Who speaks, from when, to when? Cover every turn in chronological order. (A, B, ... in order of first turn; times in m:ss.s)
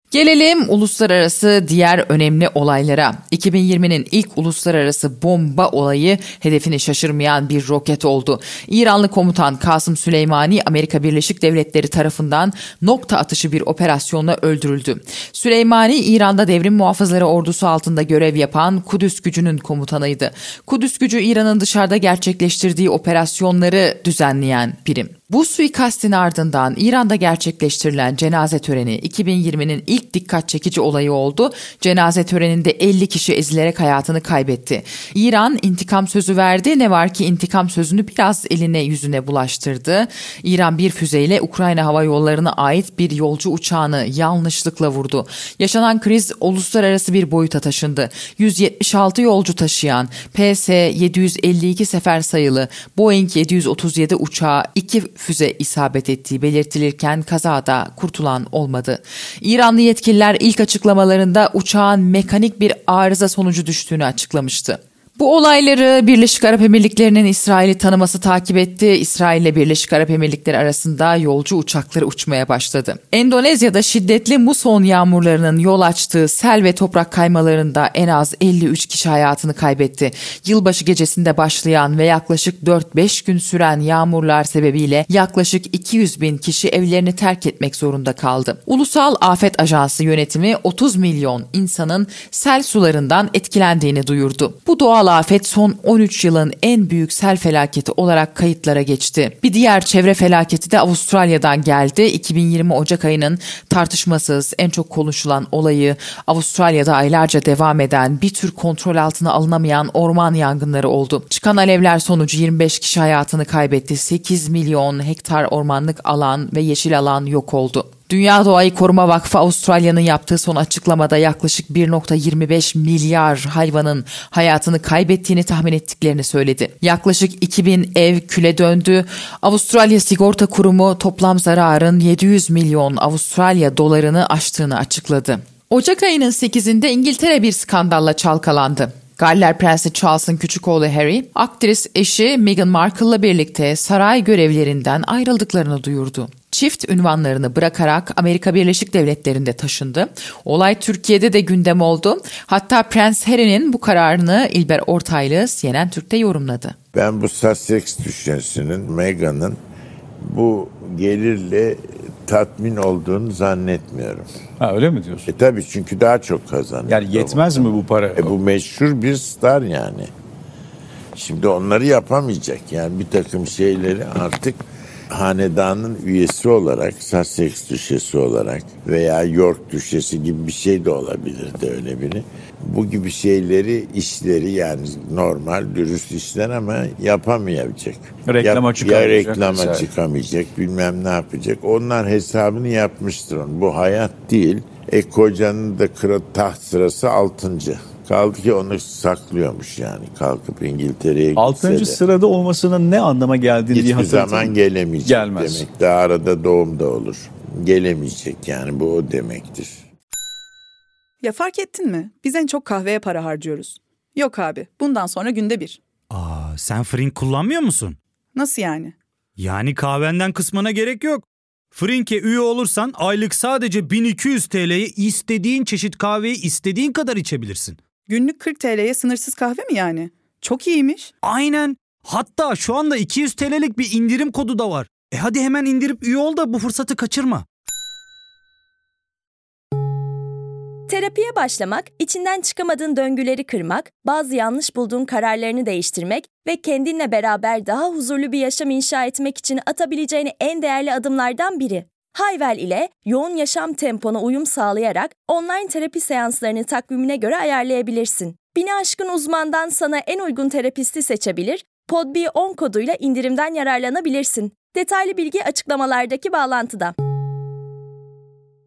0:00.1-2:36.8 A
2:36.9-2:39.6 B
2:40.2-2:44.3 B
2:44.6-2:45.3 C
2:45.2-2:50.1 B
2:46.9-2:48.3 C
2:51.2-3:22.1 B
3:08.2-3:09.9 C
3:21.4-3:25.6 C
3:23.7-3:29.8 B
3:31.2-3:35.8 D
3:36.1-3:38.0 E
3:38.4-3:38.9 D
3:39.4-3:47.8 E
3:48.1-3:51.1 D
3:51.2-3:57.4 E
4:00.9-4:26.9 F